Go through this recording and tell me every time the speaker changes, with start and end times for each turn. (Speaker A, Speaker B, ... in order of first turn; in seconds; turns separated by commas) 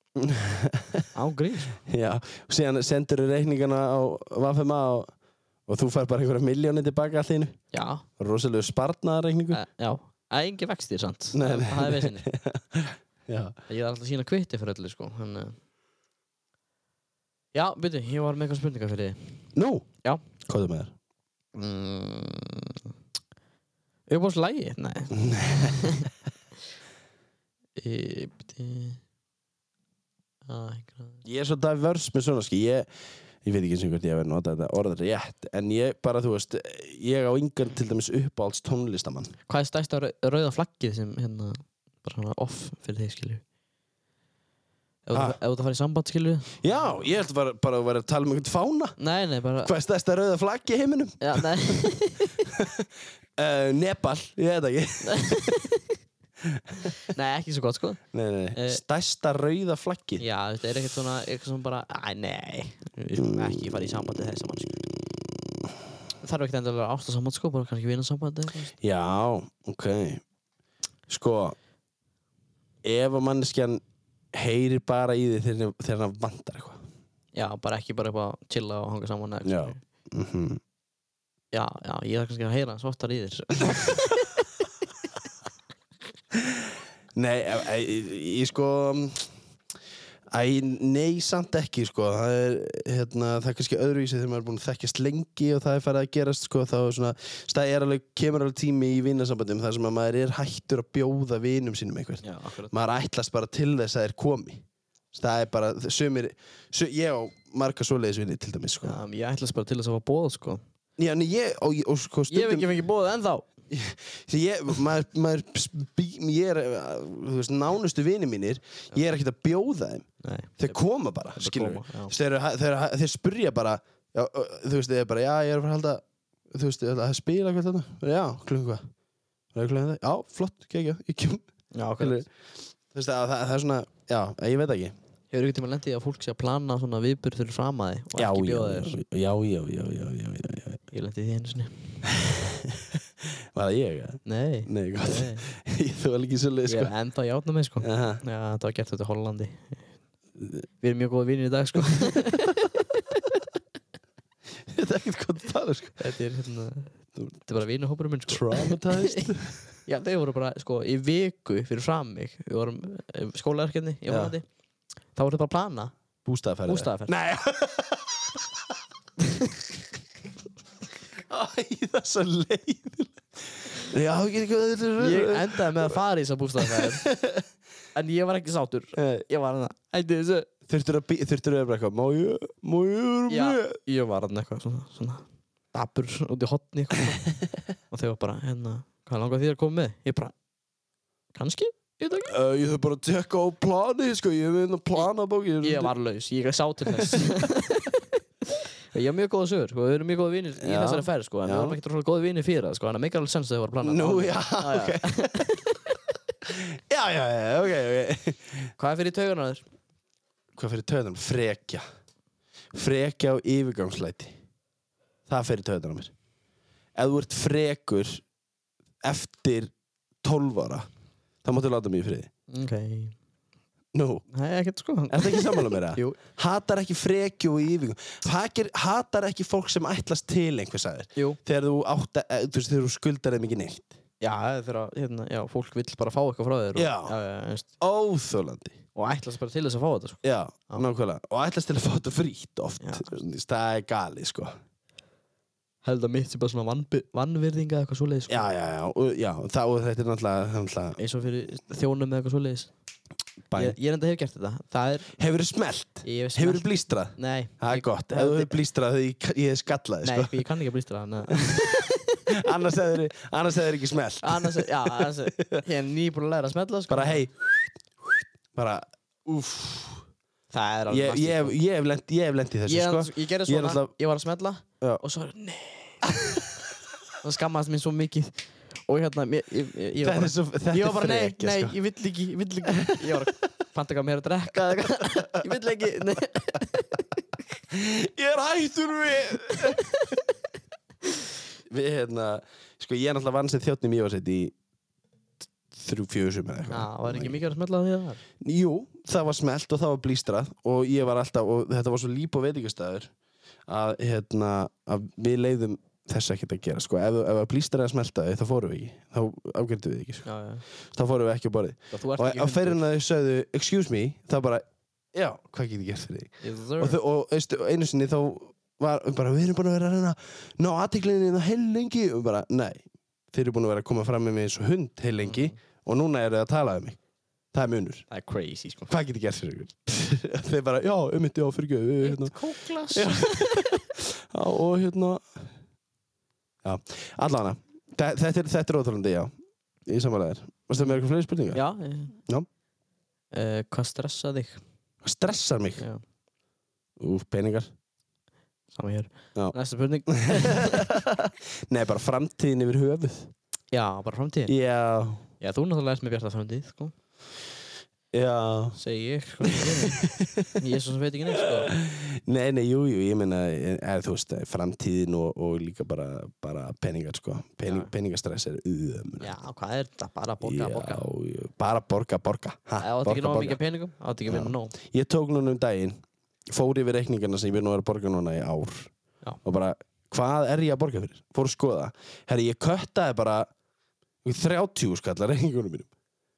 Speaker A: 0.2-1.1, Speaker B: 1.1-1.8, Speaker A: 1.8-5.1, Speaker A: 5.7-7.6, Speaker B: 7.7-8.0, Speaker A: 8.2-9.6, Speaker B: 9.5-12.2, Speaker A: 11.3-13.6, Speaker B: 13.7-15.6, Speaker B: 17.5-19.4, Speaker A: 19.5-19.9, Speaker A: 20.4-20.9, Speaker B: 21.5-22.9, Speaker B: 24.1-26.1, Speaker A: 25.1-25.8, Speaker B: 27.8-29.0, Speaker B: 30.4-31.2, Speaker A: 31.2-32.9, Speaker A: 33.4-39.3, Speaker B: 39.5-43.4, Speaker B: 45.0-46.6, Speaker A: 46.6-49.0, Speaker B: 49.0-49.7, Speaker A: 49.6-51.9, Speaker B: 51.2-52.5, Speaker A: 52.4-55.6, Speaker B: 55.0-56.0, Speaker A: 56.5-56.9, Speaker B: 57.0-58.0, Speaker A: 58.1-60.2, Speaker B: 58.5-58.8, Speaker B: 60.2-64.8, Speaker A: 63.2-63.7, Speaker B: 66.2-68.8, Speaker A: 68.8-70.2, Speaker A: 71.1-71.5, Speaker A: 72.8-76.8, Speaker B: 77.3-79.8, Speaker A: 79.4-80.6, Speaker B: 81.5-84.4, Speaker A: 87.2-89.3, Speaker A: 90.3-109.0, Speaker B: 102.2-102.7, Speaker B: 108.8-110.6, Speaker A: 111.0-112.8, Speaker B: 112.3-113.5, Speaker A: 113.7-120.1, Speaker B: 120.2-120.8, Speaker A: 120.6-128.9, Speaker B: 121.3-122.1, Speaker A: 129.5-131.4, Speaker B: 131.7-132.2, Speaker A: 132.0-132.3, Speaker A: 132.9-134.9, Speaker B: 135.3-139.0, Speaker A: 138.2-140.8, Speaker B: 140.9-142.0, Speaker A: 142.1-142.8, Speaker A: 143.5-146.9, Speaker B: 144.2-145.4, Speaker B: 146.7-149.8, Speaker A: 147.8-148.2, Speaker A: 150.4-150.6, Speaker B: 150.8-152.7, Speaker A: 154.7-156.0, Speaker B: 156.0-159.3, Speaker A: 158.3-159.6, Speaker B: 159.8-164.4, Speaker A: 164.1-164.3, Speaker B: 165.1-165.9, Speaker A: 166.2-168.2, Speaker B: 166.7-167.1, Speaker A: 171.3-176.0, Speaker B: 175.0-177.1, Speaker A: 176.6-177.4, Speaker B: 177.9-180.5, Speaker A: 178.9-179.2, Speaker A: 180.7-183.8, Speaker B: 183.3-187.2, Speaker B: 187.9-190.3, Speaker B: 191.3-192.3, Speaker A: 192.3-195.9, Speaker B: 195.6-206.0, Speaker A: 200.6-201.8, Speaker A: 203.8-205.5, Speaker A: 206.5-208.7, Speaker B: 208.8-209.6, Speaker A: 210.6-211.8, Speaker A: 212.7-214.3, Speaker A: 215.3-216.1, Speaker A: 216.9-218.2, Speaker A: 219.0-220.9, Speaker A: 221.4-222.3, Speaker B: 222.5-223.2, Speaker A: 223.9-224.2, Speaker B: 224.3-226.2, Speaker A: 225.1-234.0, Speaker B: 234.2-237.7, Speaker A: 236.8-237.2, Speaker A: 237.8-238.8, Speaker B: 238.9-240.8, Speaker A: 240.2-244.6, Speaker B: 242.8-243.2, Speaker B: 245.8-248.5, Speaker A: 248.3-251.0, Speaker B: 251.0-252.7, Speaker A: 253.5-253.8, Speaker B: 253.5-255.2, Speaker A: 255.2-260.4, Speaker B: 256.0-258.5, Speaker B: 260.0-262.2, Speaker A: 262.3-265.6, Speaker B: 264.2-267.2, Speaker A: 266.9-270.0, Speaker B: 270.5-271.6, Speaker A: 270.9-273.9, Speaker B: 272.7-276.2, Speaker B: 277.2-287.4, Speaker A: 280.0-281.8, Speaker A: 282.8-283.1, Speaker A: 287.7-289.9, Speaker B: 289.5-290.2, Speaker A: 291.7-294.5, Speaker A: 295.7-297.4, Speaker B: 296.7-298.2, Speaker A: 298.4-303.1, Speaker A: 303.7-310.3, Speaker B: 310.2-310.6, Speaker A: 310.9-327.0, Speaker B: 311.9-312.8, Speaker B: 316.4-317.0, Speaker B: 325.2-325.6, Speaker A: 327.5-328.1, Speaker B: 328.1-328.9, Speaker A: 328.9-335.2, Speaker B: 332.0-333.7, Speaker A: 336.6-339.3, Speaker A: 339.9-341.6, Speaker B: 341.5-342.1, Speaker B: 343.3-344.6, Speaker A: 345.0-345.9, Speaker A: 347.0-347.7, Speaker B: 348.7-350.8, Speaker A: 350.1-353.3, Speaker B: 353.7-354.5, Speaker A: 354.5-355.2, Speaker B: 355.4-356.9, Speaker A: 358.1-358.8, Speaker B: 358.8-361.7, Speaker A: 359.4-360.5, Speaker A: 361.4-369.3, Speaker B: 367.6-367.9, Speaker B: 369.2-371.0, Speaker A: 370.4-373.6, Speaker B: 372.8-374.7, Speaker A: 374.3-376.0, Speaker A: 376.5-378.9, Speaker A: 379.4-383.5, Speaker A: 384.2-385.9